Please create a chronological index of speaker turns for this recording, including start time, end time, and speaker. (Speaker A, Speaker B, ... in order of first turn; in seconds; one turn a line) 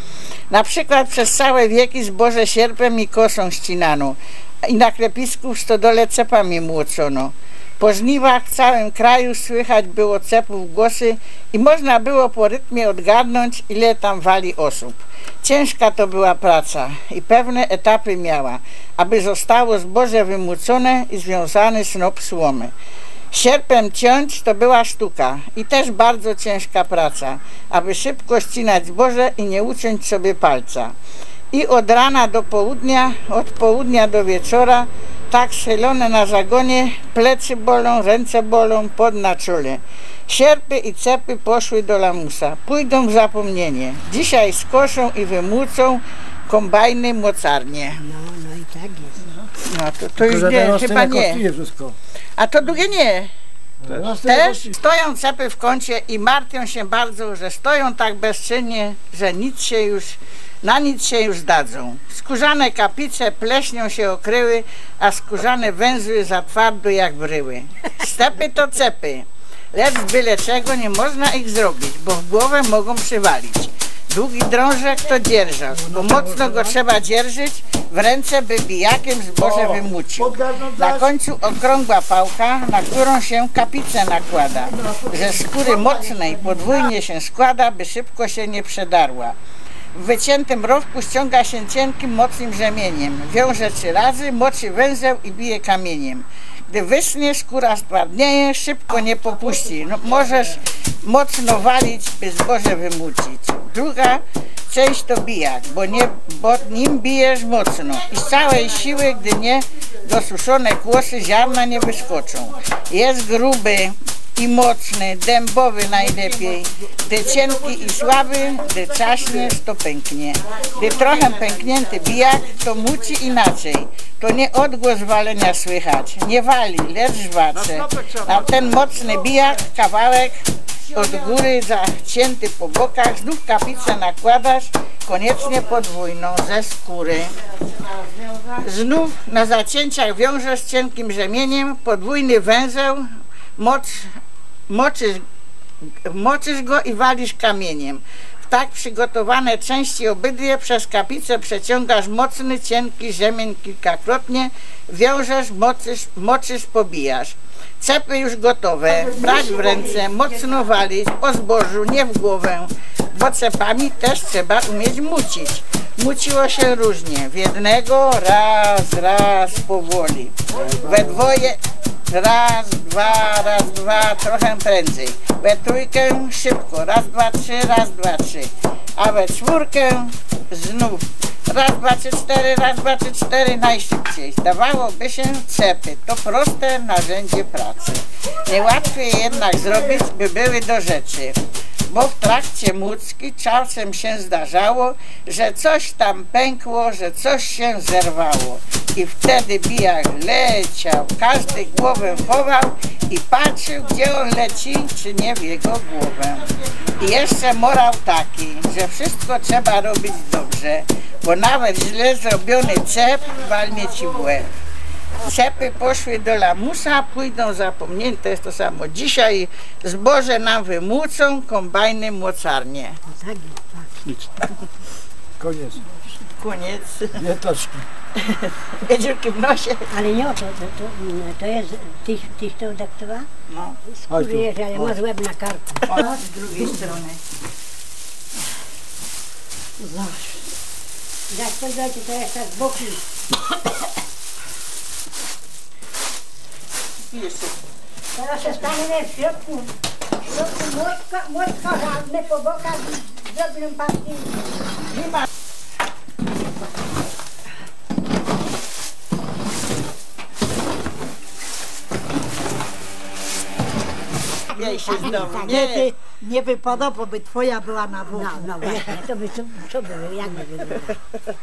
Speaker A: 0.5-22.7
Speaker A: 23.3-30.9
Speaker A: 31.5-48.0
Speaker B: 48.0-49.3
Speaker A: 49.6-51.5
Speaker C: 50.2-52.0
Speaker A: 52.4-53.3
Speaker A: 53.9-89.4
Speaker C: 53.9-54.5
Speaker B: 75.7-76.8
Speaker A: 90.0-143.1
Speaker A: 143.6-144.2
Speaker A: 144.7-145.2
Speaker A: 146.1-171.6
Speaker A: 172.1-191.4
Speaker A: 191.9-214.5
Speaker A: 215.2-223.0
Speaker B: 223.1-224.1
Speaker C: 225.4-225.8
Speaker A: 226.4-227.3
Speaker C: 227.2-227.8
Speaker A: 228.2-229.9
Speaker B: 229.9-233.3
Speaker A: 233.5-233.8
Speaker B: 233.9-236.1
Speaker C: 234.1-234.9
Speaker A: 235.8-237.2
Speaker B: 239.8-240.5
Speaker B: 241.3-243.0
Speaker A: 247.0-247.6
Speaker B: 248.1-249.7
Speaker B: 250.3-254.6
Speaker A: 254.9-255.2
Speaker A: 264.5-265.9
Speaker B: 264.5-265.6
Speaker D: 264.9-268.8
Speaker B: 268.1-271.0